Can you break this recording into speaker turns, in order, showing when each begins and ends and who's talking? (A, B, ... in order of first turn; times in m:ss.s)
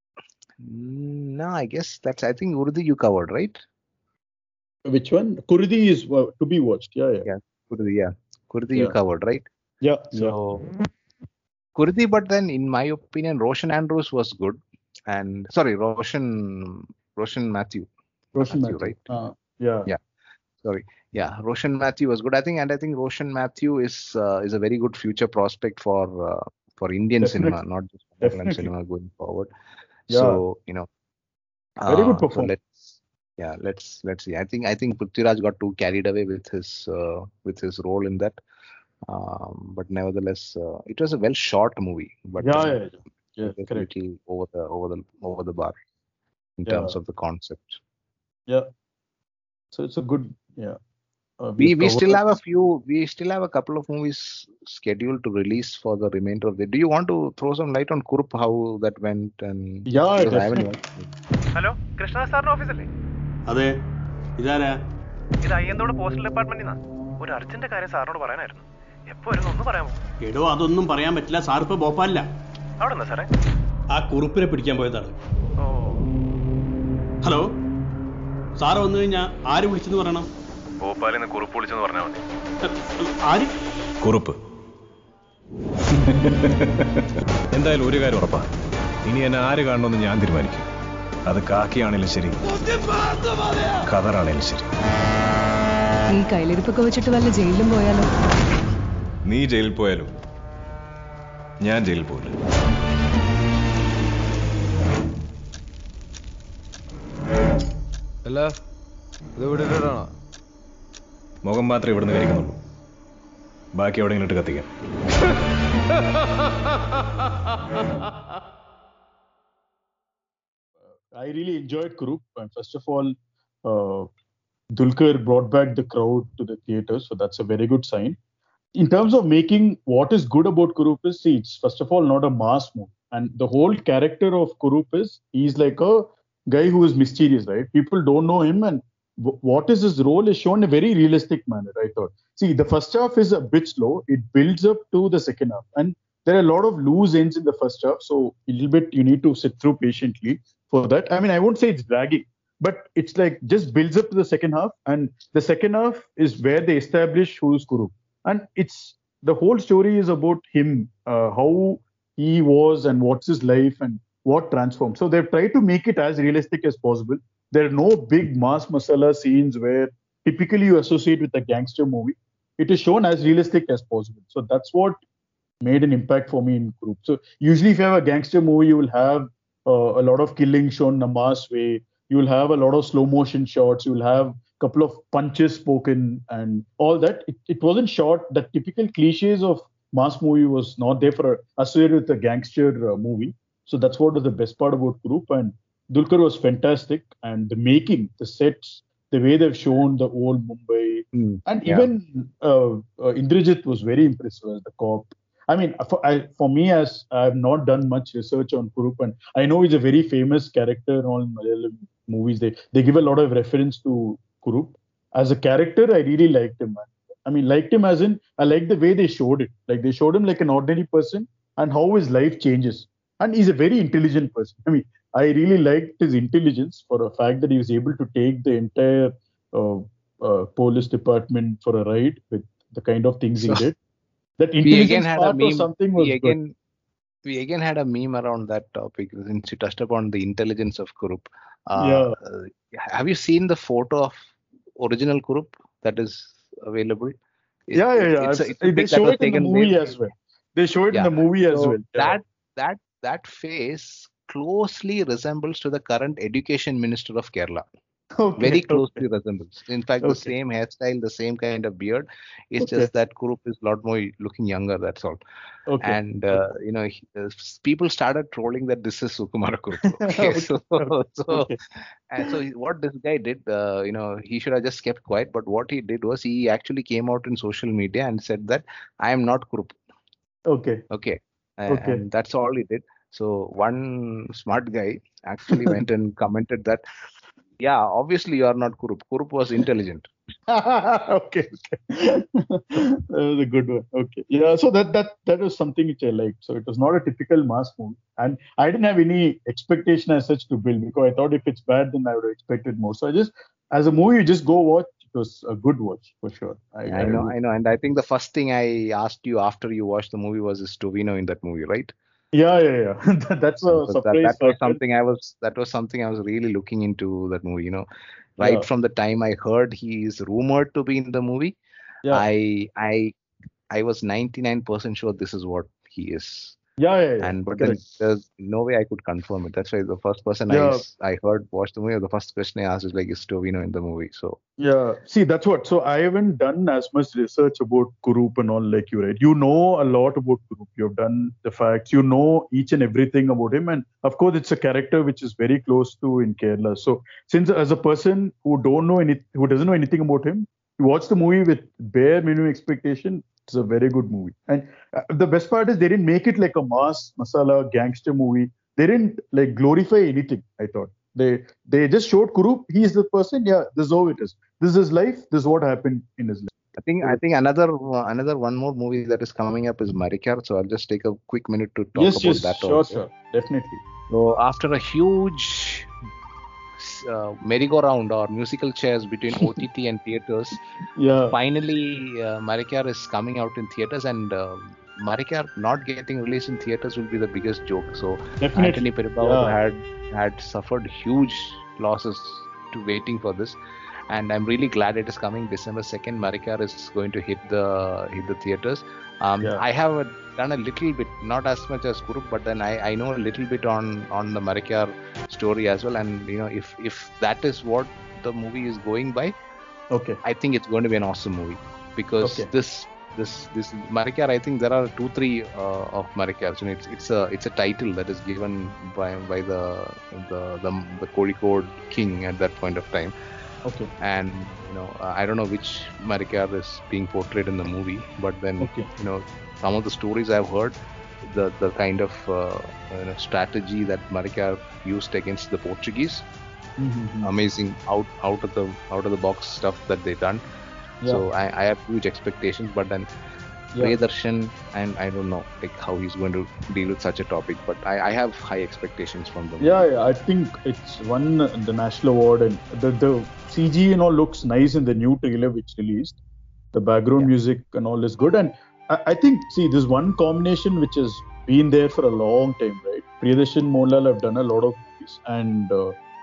0:00.6-0:03.6 A
0:04.9-0:07.3 B
0:07.2-0:09.4 A
0:09.8-0:10.4 B
0:10.1-0:10.7 A
0:11.8-0:17.9 A
0:18.4-0:19.9 B
0:18.4-0:19.0 A
0:20.6-0:29.5 A
0:27.2-0:27.6 B
0:28.2-0:28.7 B
0:30.1-0:30.9 A
0:30.1-0:30.4 B
0:31.8-0:32.5 B
0:31.8-0:38.4 A
0:39.0-0:42.8 A
0:42.4-0:43.9 B
0:43.4-0:45.8 A
0:46.6-0:47.8 A
0:46.7-0:46.9 B
0:49.7-0:50.8 B
0:51.4-0:52.2 B
0:51.6-1:01.1 A
0:59.9-1:00.7 B
1:01.6-1:02.9 C
1:03.5-1:03.8 D
1:04.4-1:04.8 D
1:05.4-1:09.9 C
1:10.2-1:12.3 D
1:12.8-1:13.3 C
1:13.9-1:15.1 D
1:15.6-1:16.0 C
1:18.6-1:20.3 D
1:21.6-1:22.1 C
1:23.0-1:23.5 D
1:24.0-1:24.4 E
1:26.0-1:26.9 E
1:27.5-1:28.4 E
1:29.1-1:30.7 E
1:31.3-1:32.4 E
1:33.8-1:34.7 E
1:36.1-1:38.1 F
1:39.3-1:40.1 E
1:41.6-1:42.4 E
1:49.4-1:50.0 E
1:51.4-1:52.6 E
1:53.8-1:54.7 E
2:01.1-2:04.1 B
2:04.8-2:08.2 B
2:08.8-2:55.0 B
2:55.6-3:53.8 B
3:21.1-3:21.9 A
3:54.4-3:56.4 B
3:54.6-3:56.6 A
3:57.2-4:04.2 A
4:01.8-4:02.1 B
4:04.8-4:07.2 A
4:07.7-4:10.0 A
4:07.8-4:12.2 B
4:10.9-4:17.6 A
4:18.2-4:19.0 B
4:18.4-4:25.2 A
4:20.0-4:20.3 B
4:22.6-4:22.9 B
4:25.7-4:26.4 B
4:25.8-4:39.8 A
4:30.0-4:31.6 B
4:40.5-4:40.8 B
4:40.9-4:46.8 A
4:41.7-4:42.0 B
4:45.5-4:45.8 B
4:47.6-4:50.1 A
4:50.5-5:07.3 B
5:06.9-5:11.9 A
5:12.3-5:14.8 B
5:13.7-5:17.9 A
5:18.4-5:21.6 A
5:22.1-5:23.1 A
5:23.7-5:26.6 A
5:26.8-5:27.8 B
5:27.2-5:34.4 A
5:30.5-5:30.8 B
5:34.6-6:06.5 B
6:06.8-6:13.0 A
6:12.0-6:13.8 B
6:14.1-6:15.9 A
6:16.8-6:20.6 A
6:21.0-6:21.4 B
6:21.3-6:33.6 A
6:28.4-6:29.6 B
6:34.1-6:49.3 A
6:49.9-6:50.2 B
6:50.2-7:03.1 A
6:52.2-6:52.5 B
7:04.0-7:16.2 A
7:08.6-7:08.9 B
7:16.8-7:17.3 B
7:17.2-7:20.4 A
7:21.1-7:23.1 A
7:23.8-7:29.8 A
7:29.6-7:36.2 B
7:36.7-7:45.9 B